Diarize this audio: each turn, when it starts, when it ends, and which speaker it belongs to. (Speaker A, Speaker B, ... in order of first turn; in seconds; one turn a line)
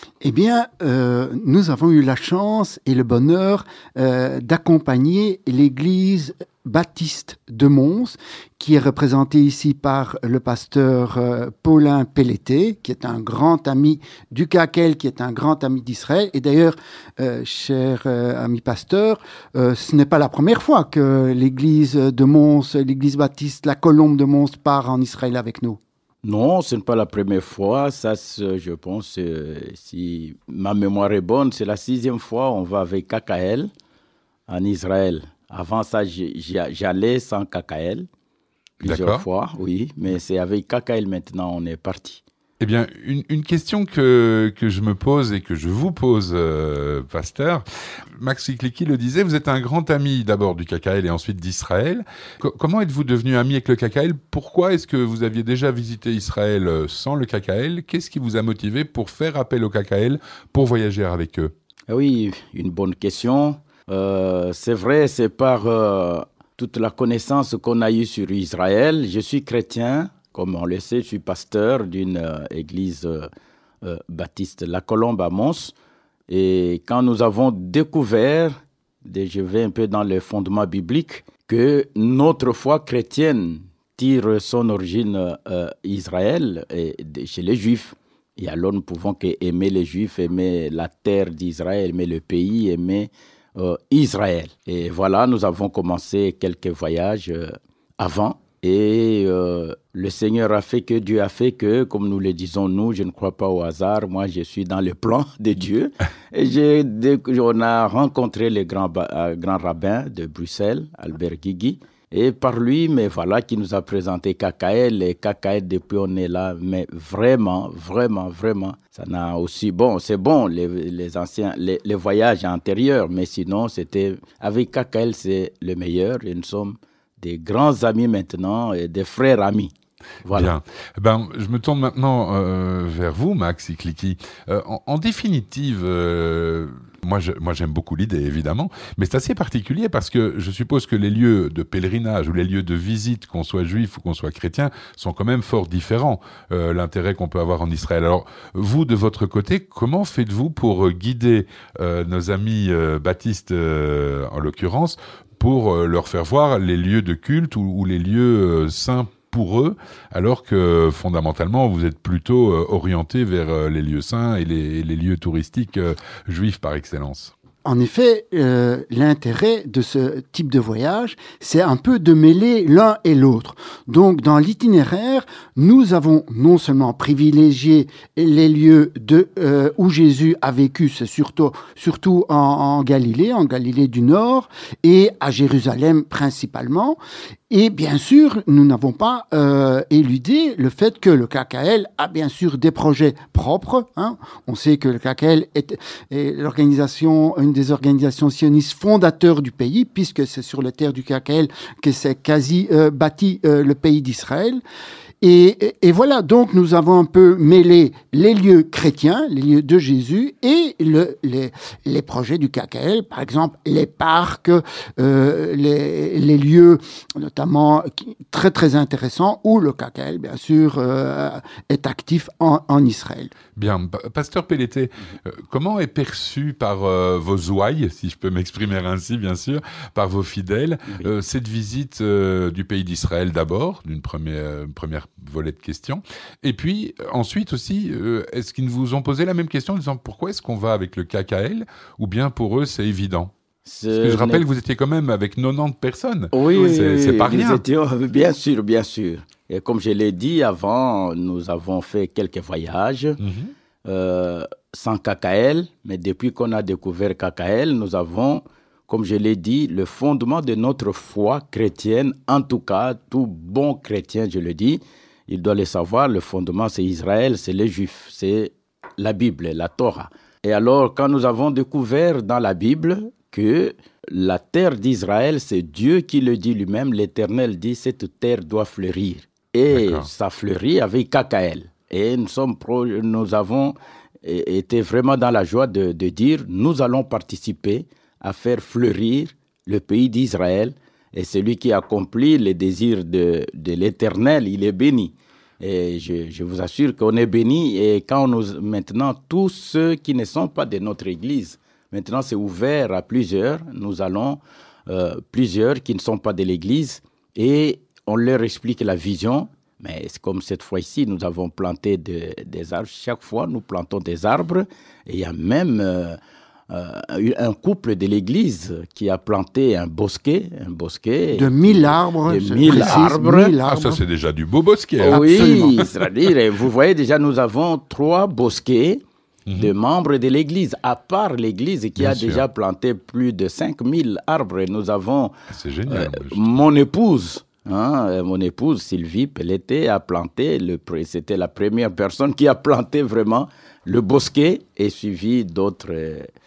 Speaker A: 0.2-25.8
Speaker B: 26.2-33.7
Speaker B: 34.5-38.1
Speaker B: 38.8-42.2
Speaker C: 38.8-39.2
Speaker C: 42.6-47.6
Speaker C: 48.2-61.5
Speaker B: 61.9-73.3
Speaker B: 73.8-75.7
Speaker B: 76.3-78.5
Speaker B: 79.0-129.7
Speaker B: 130.2-130.5
Speaker C: 130.3-167.3
Speaker A: 167.6-187.0
Speaker A: 187.5-204.6
Speaker A: 205.2-223.3
Speaker C: 223.6-243.3
Speaker B: 243.7-244.4
Speaker C: 243.9-247.6
Speaker B: 246.3-253.2
Speaker C: 253.2-253.5
Speaker B: 253.8-316.2
Speaker C: 279.7-280.1
Speaker B: 316.7-323.6
Speaker A: 321.3-324.0
Speaker C: 322.7-323.1
Speaker C: 323.6-325.6
Speaker B: 325.0-329.0
Speaker A: 325.1-325.9
Speaker C: 329.5-329.7
Speaker B: 329.5-335.3
Speaker C: 332.0-332.4
Speaker C: 335.5-336.6
Speaker B: 335.9-346.3